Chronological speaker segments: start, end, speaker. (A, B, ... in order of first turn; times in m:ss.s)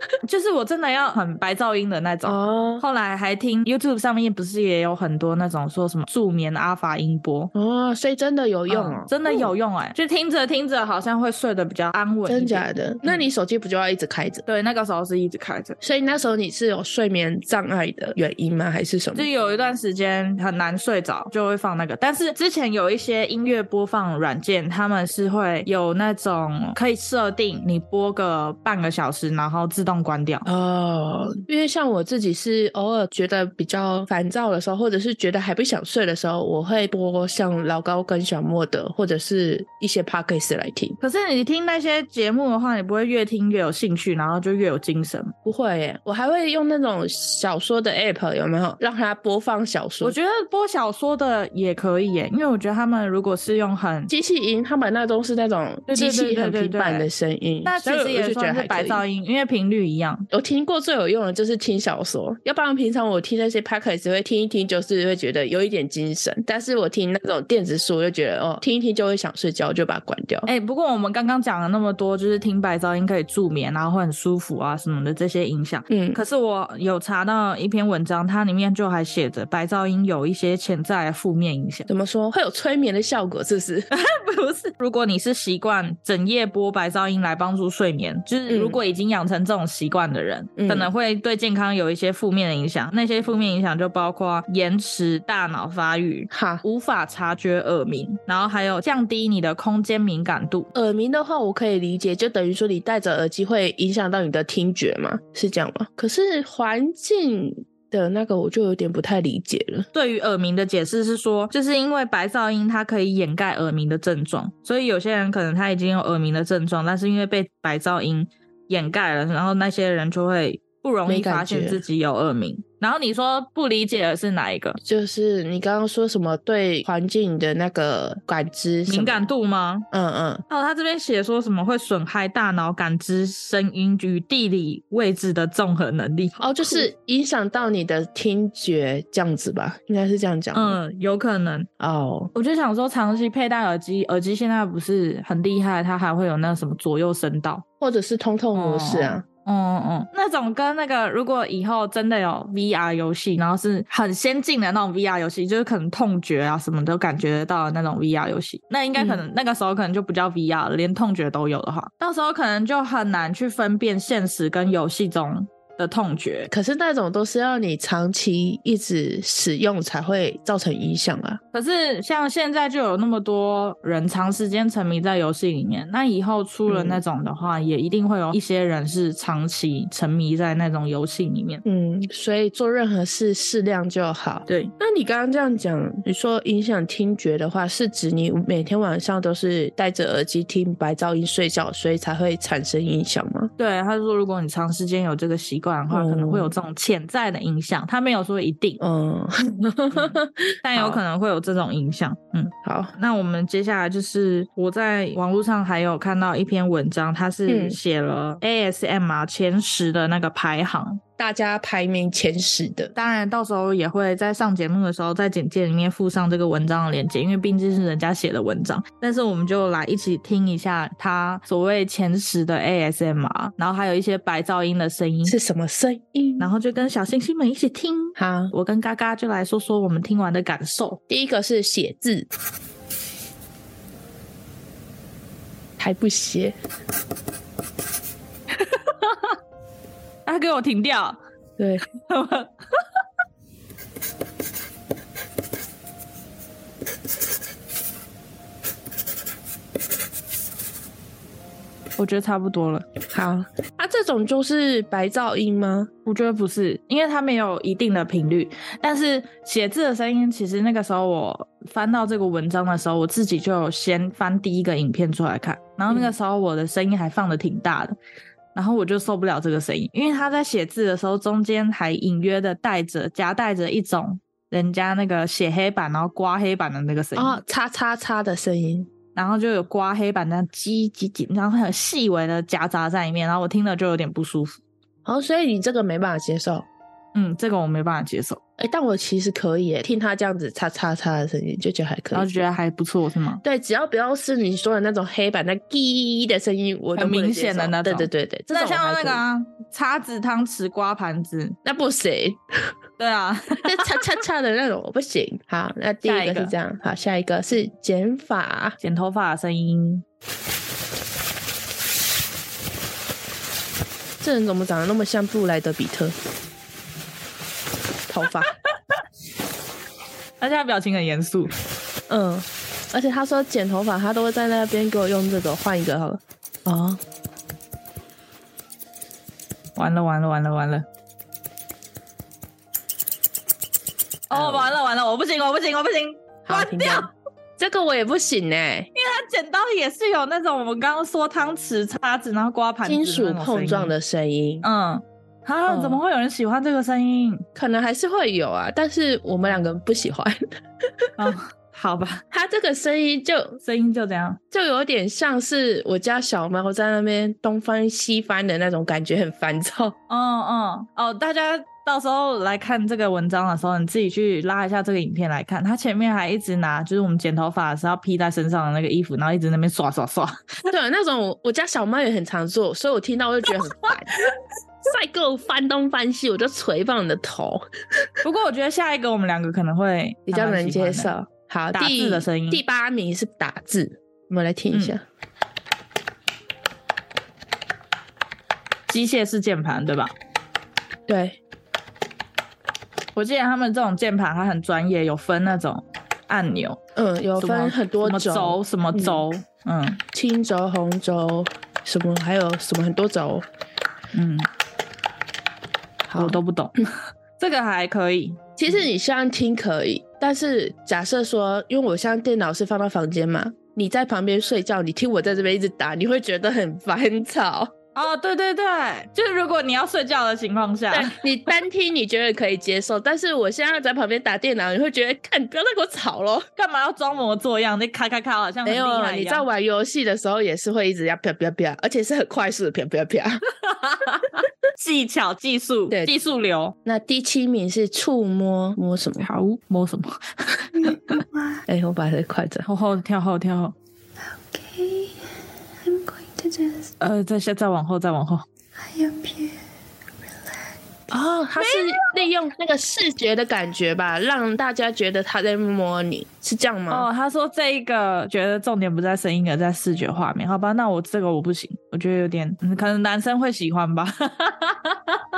0:00.2-0:07.5 A
0:02.2-0:02.8 B
0:07.5-0:09.5 B
0:08.7-0:13.3 A
0:12.3-0:14.4 B
0:14.4-0:15.8 A
0:15.8-0:19.3 B
0:19.1-0:30.4 A
0:30.4-0:41.0 B
0:41.0-0:45.3 A
0:45.4-0:50.2 B
0:50.0-0:54.1 A
0:54.1-0:59.0 B
0:55.9-0:57.1 A
0:57.6-1:00.3 A
1:00.3-1:10.5 B
1:10.4-1:21.9 A
1:15.9-1:16.2 B
1:21.9-1:23.9 B
1:23.9-1:40.7 A
1:28.5-1:28.8 B
1:30.6-1:30.9 B
1:36.3-1:36.6 B
1:40.7-1:49.9 B
1:49.9-2:04.8 A
2:01.0-2:01.8 B
2:04.8-2:09.2 B
2:08.9-2:09.8 A
2:09.9-2:10.4 B
2:10.5-2:16.8 A
2:16.4-2:20.8 B
2:20.5-2:21.7 A
2:21.8-2:22.3 B
2:22.3-2:27.6 A
2:27.8-2:29.2 B
2:28.5-2:46.5 A
2:38.9-2:39.2 B
2:46.5-2:51.4 B
2:51.5-3:01.6 A
2:56.7-2:57.0 B
3:01.6-3:13.5 B
3:04.5-3:04.7 A
3:13.6-3:18.8 A
3:15.9-3:16.5 B
3:18.8-3:21.0 B
3:19.9-3:31.0 A
3:22.6-3:22.9 B
3:27.5-3:27.8 B
3:31.2-3:32.9 B
3:32.9-3:45.4 A
3:45.3-3:46.5 B
3:46.4-3:51.0 A
3:48.2-3:48.5 B
3:51.1-3:52.3 B
3:55.8-3:56.6 B
3:58.6-3:59.4 A
4:00.2-4:01.2 A
4:01.6-4:01.8 B
4:02.0-4:02.8 A
4:12.0-4:12.8 A
4:13.1-4:15.9 B
4:16.0-4:28.0 A
4:28.5-4:37.4 A
4:37.2-4:38.9 B
4:39.1-4:44.6 A
4:45.0-4:46.7 B
4:47.1-4:48.4 A
4:48.6-4:52.3 B
4:52.1-4:53.4 A
4:53.4-4:59.2 B
4:57.0-5:01.6 A
5:01.6-5:02.7 B
5:03.0-5:04.0 A
5:03.6-5:08.8 B
5:06.0-5:06.5 A
5:08.8-5:10.0 A
5:14.2-5:16.2 B
5:18.1-5:18.5 B
5:20.4-5:21.5 A
5:22.1-5:27.0 B
5:29.8-5:30.8 A
5:34.3-5:37.1 A
5:34.3-5:34.7 B
5:36.4-5:38.9 B
5:38.9-5:43.9 A
5:42.8-5:44.6 B
5:44.6-5:47.4 A
5:45.7-5:46.0 B
5:47.5-5:51.1 B
5:51.2-5:52.2 A
5:52.3-5:53.6 B
5:53.6-5:54.4 A
5:54.5-6:00.0 B
6:00.1-6:10.4 A
6:10.7-6:14.2 B
6:14.8-6:18.1 B
6:18.2-6:21.1 A
6:20.3-6:25.0 B
6:21.7-6:22.6 A
6:28.9-6:30.1 A
6:31.1-6:31.4 B
6:33.1-6:36.8 A
6:37.0-6:39.2 B
6:37.4-6:40.0 A
6:40.1-6:43.4 B
6:44.1-6:44.5 A
6:46.1-6:46.4 B
6:46.2-6:46.8 A
6:47.4-6:48.4 A
6:48.6-6:57.7 B
6:57.9-7:01.2 A
7:00.9-7:06.5 B
7:06.6-7:09.4 A
7:08.6-7:13.4 B
7:13.5-7:16.7 A
7:16.8-7:19.3 B
7:19.2-7:21.1 A
7:20.8-7:21.6 C
7:21.7-7:22.7 B
7:22.6-7:23.7 A
7:24.2-7:26.9 C
7:27.0-7:28.4 A
7:28.7-7:29.6 C
7:30.2-7:30.8 C
7:31.1-7:37.1 B
7:31.6-7:32.1 A
7:36.9-7:45.2 A